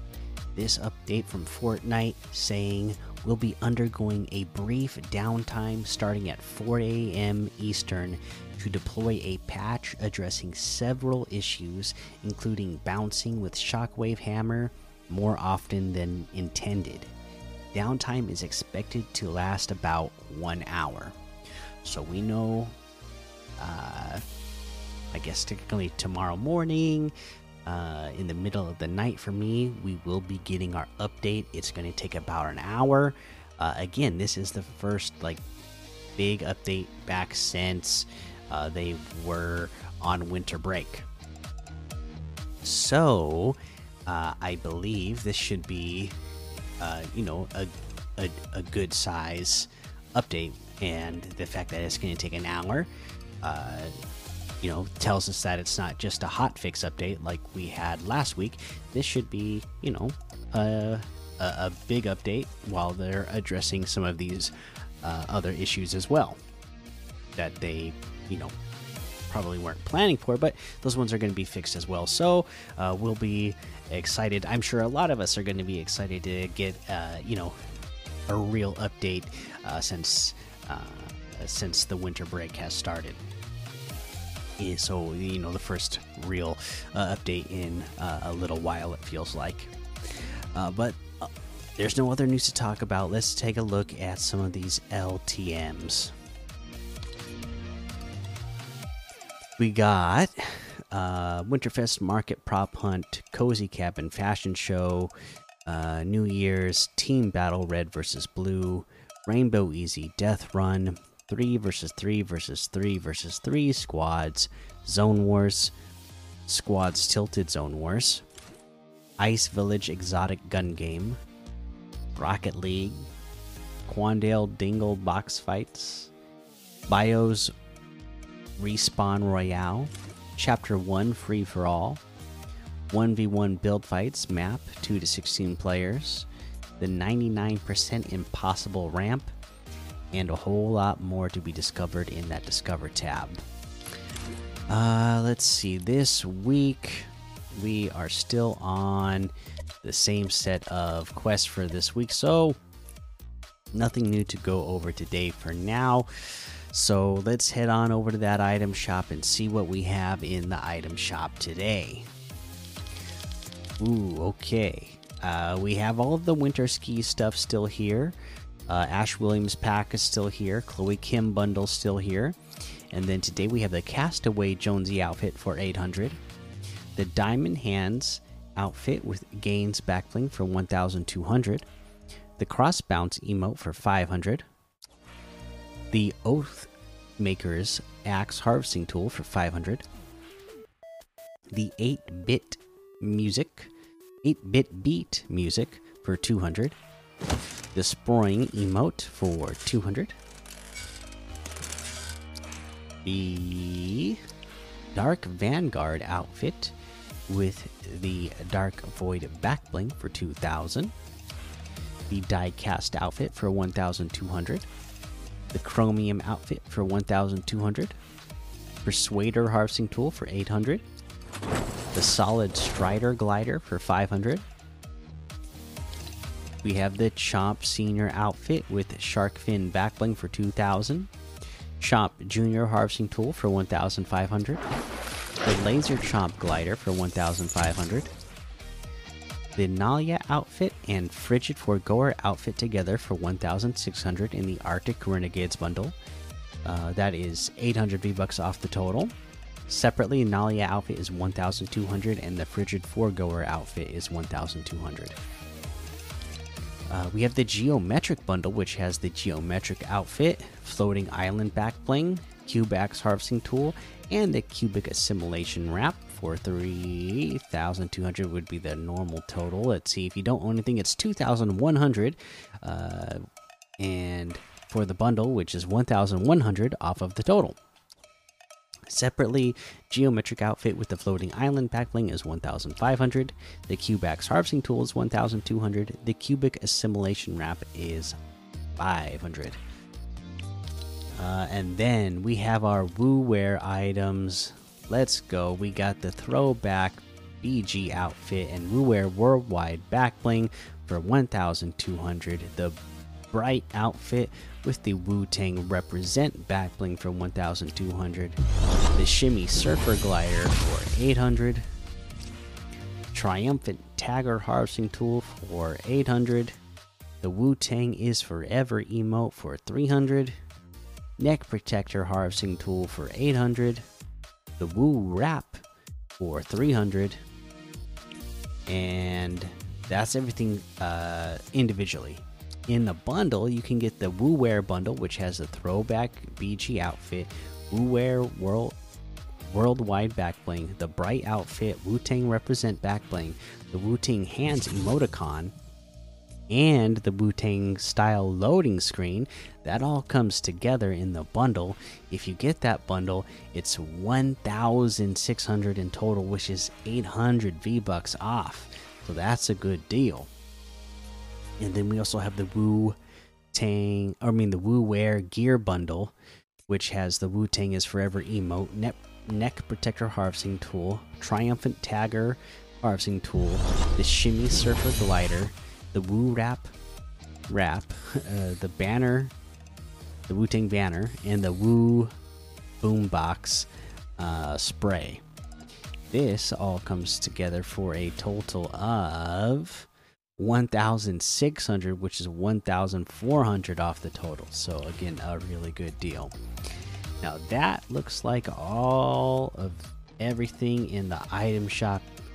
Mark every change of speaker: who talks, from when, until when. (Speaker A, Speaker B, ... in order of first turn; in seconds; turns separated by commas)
Speaker A: 0.5-17.1, Speaker A: 17.7-21.1, Speaker A: 21.8-22.8, Speaker A: 23.6-24.2, Speaker A: 25.1-27.1, Speaker A: 27.6-35.4, Speaker A: 36.2-41.1, Speaker A: 42.6-46.1, Speaker A: 46.8-52.9, Speaker A: 53.4-53.9, Speaker A: 54.6-66.4, Speaker A: 67.3-68.5, Speaker A: 69.3-77.5, Speaker A: 78.3-83.2, Speaker A: 84.6-96.1, Speaker A: 99.6-105.1, Speaker A: 105.6-115.7, Speaker A: 116.5-118.2, Speaker A: 119.2-121.2, Speaker A: 122.1-123.1, Speaker A: 123.9-126.1, Speaker A: 126.9-127.5, Speaker A: 128.6-132.0, Speaker A: 132.9-136.3, Speaker A: 136.8-139.3, Speaker A: 140.1-143.4, Speaker A: 144.7-149.3, Speaker A: 149.8-152.6, Speaker A: 153.7-162.1, Speaker A: 163.8-168.2, Speaker A: 168.7-172.4, Speaker A: 172.9-176.2, Speaker A: 176.9-181.7, Speaker A: 182.4-184.4, Speaker A: 185.9-189.8, Speaker A: 191.5-193.7, Speaker A: 194.2-196.8, Speaker A: 197.7-200.2, Speaker A: 203.0-204.2, Speaker A: 204.9-206.7, Speaker A: 207.3-210.9, Speaker A: 212.1-214.7, Speaker A: 215.5-217.9, Speaker A: 218.8-220.8, Speaker A: 221.9-224.4, Speaker A: 226.6-231.1, Speaker A: 231.8-234.6, Speaker A: 235.4-238.1, Speaker A: 239.6-245.9, Speaker A: 246.6-249.1, Speaker A: 249.7-255.2, Speaker A: 256.9-273.2, Speaker A: 273.8-277.6, Speaker A: 278.9-288.2, Speaker A: 288.8-289.6, Speaker A: 291.2-302.8, Speaker A: 303.3-308.4, Speaker A: 308.9-311.6, Speaker A: 313.1-316.6, Speaker A: 317.2-320.4, Speaker A: 321.2-323.8, Speaker A: 324.6-325.6, Speaker A: 326.2-327.2, Speaker A: 328.7-338.8, Speaker A: 339.5-345.5, Speaker A: 346.5-360.3, Speaker A: 361.6-362.9, Speaker A: 363.5-366.1, Speaker A: 366.7-376.7, Speaker A: 377.5-379.3, Speaker A: 380.3-382.1, Speaker A: 382.8-385.2, Speaker A: 386.1-396.3, Speaker A: 397.2-402.1